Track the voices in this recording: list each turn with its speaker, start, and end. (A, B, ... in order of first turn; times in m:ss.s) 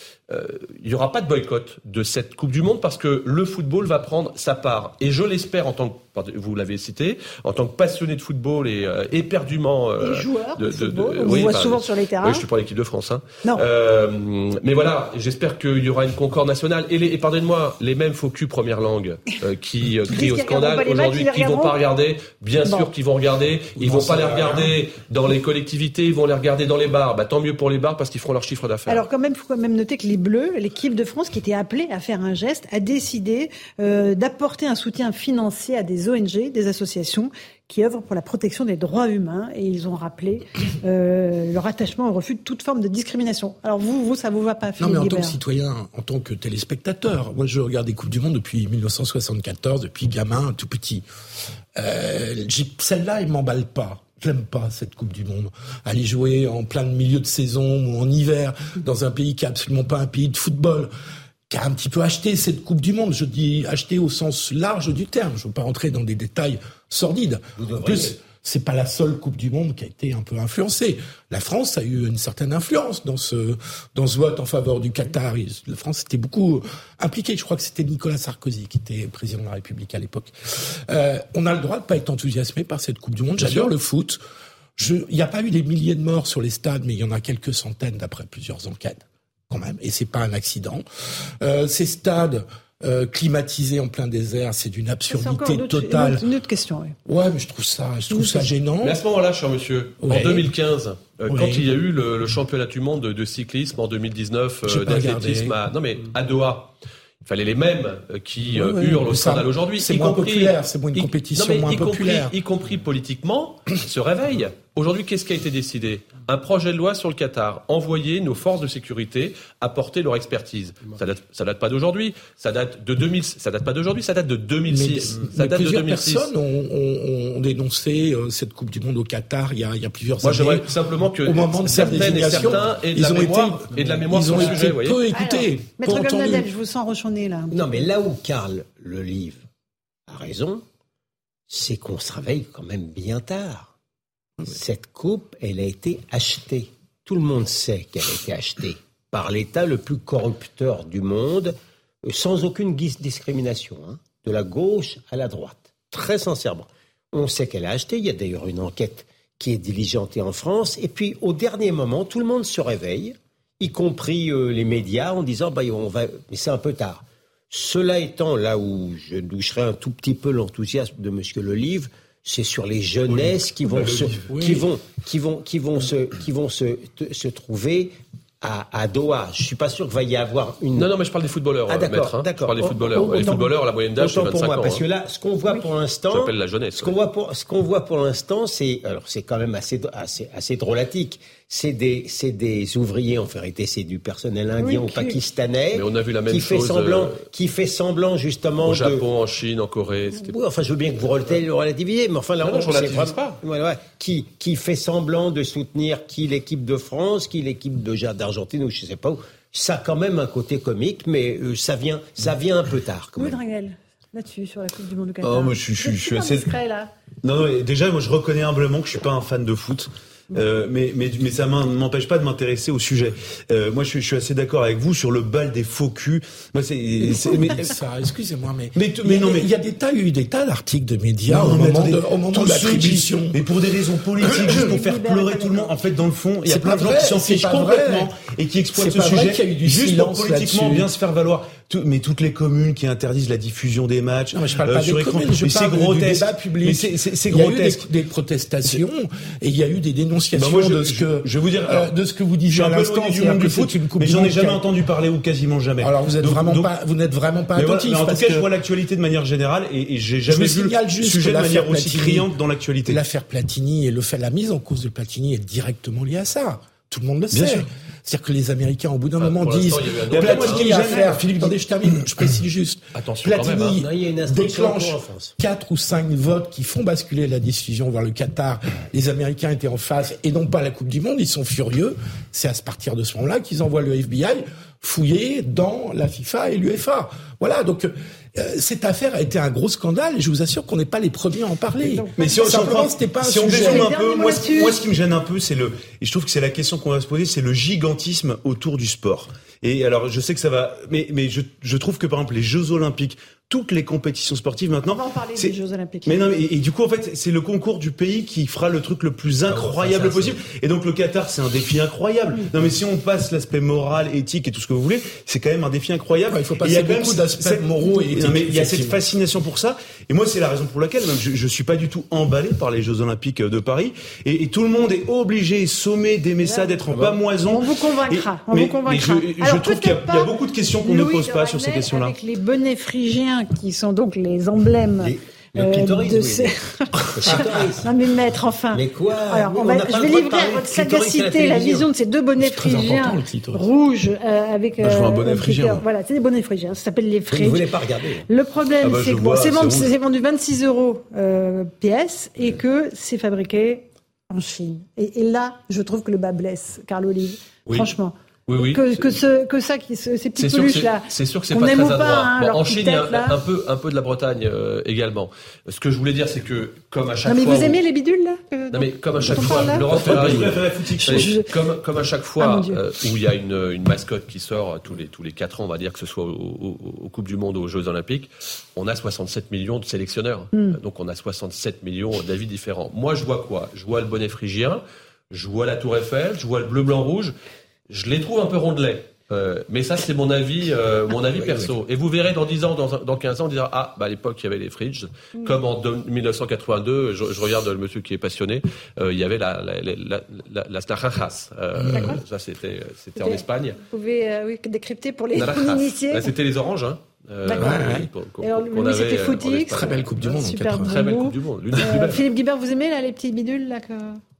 0:00.3-0:29.0 A
0:10.0-0:12.4 B
0:20.1-0:21.8 B
0:22.6-0:22.9 B
0:23.8-0:24.7 C
0:28.9-0:45.4 B
0:44.8-0:51.0 C
0:51.8-1:00.9 C
1:01.5-1:24.2 C
1:07.6-1:08.2 D
1:24.8-1:30.8 C
1:31.4-1:36.2 C
1:35.1-1:37.0 B
1:37.0-1:39.0 C
1:38.1-1:38.5 B
1:38.8-2:06.3 A
1:40.0-1:40.5 C
1:41.3-1:41.7 C
1:44.6-1:45.5 C
1:48.5-1:52.3 C
2:04.6-2:10.7 C
2:10.2-2:15.0 A
2:11.2-2:16.5 C
2:15.1-2:17.9 B
2:17.5-2:19.4 D
2:20.1-2:20.6 D
2:21.5-2:23.7 D
2:24.4-3:00.9 D
2:53.1-2:54.3 E
2:54.3-2:54.6 C
3:00.7-3:04.8 A
3:01.7-3:19.0 D
3:06.1-3:06.9 A
3:14.6-3:15.2 B
3:15.7-3:17.2 A
3:18.6-3:20.4 A
3:20.1-3:33.4 D
3:22.4-3:23.4 A
3:33.2-3:36.9 B
3:35.2-3:36.5 E
3:37.2-3:47.7 E
3:47.4-3:53.4 C
3:48.8-3:49.5 E
3:51.3-4:07.8 E
3:54.2-3:54.7 C
3:54.3-3:55.7 B
3:56.4-3:58.1 C
3:58.8-4:00.9 C
4:04.3-4:14.6 C
4:10.4-4:11.9 E
4:12.5-4:16.7 E
4:15.8-4:18.5 C
4:17.6-4:23.0 E
4:20.3-4:22.3 C
4:22.9-4:53.9 C
4:27.3-4:27.6 E
4:29.2-4:31.0 A
4:30.1-4:31.5 E
4:32.9-4:33.8 A
4:33.6-4:35.3 D
4:51.8-4:52.9 B
4:52.2-5:32.2 E
4:53.5-4:54.8 B
5:04.9-5:06.3 B
5:09.5-5:10.3 C
5:16.3-5:19.0 C
5:26.4-5:47.8 B
5:26.9-5:27.1 D
5:35.0-5:36.5 D
5:37.2-5:37.9 D
5:38.7-5:41.9 D
5:42.4-5:43.7 C
5:44.8-5:45.8 E
5:47.3-5:48.3 D
5:48.3-6:03.4 B
5:48.8-5:49.9 A
5:57.7-5:57.9 A
5:58.5-5:59.2 A
6:00.4-6:07.8 A
6:07.2-6:11.5 B
6:08.7-6:27.4 A
6:09.2-6:11.3 E
6:12.4-6:12.8 B
6:27.9-6:43.8 A
6:31.1-6:31.8 C
6:35.4-6:35.6 B
6:41.8-6:42.2 C
6:41.9-6:42.2 B
6:43.2-6:46.3 B
6:45.4-6:50.2 A
6:47.4-6:54.2 B
6:47.5-6:48.1 C
6:49.7-6:51.0 C
6:50.8-6:52.3 A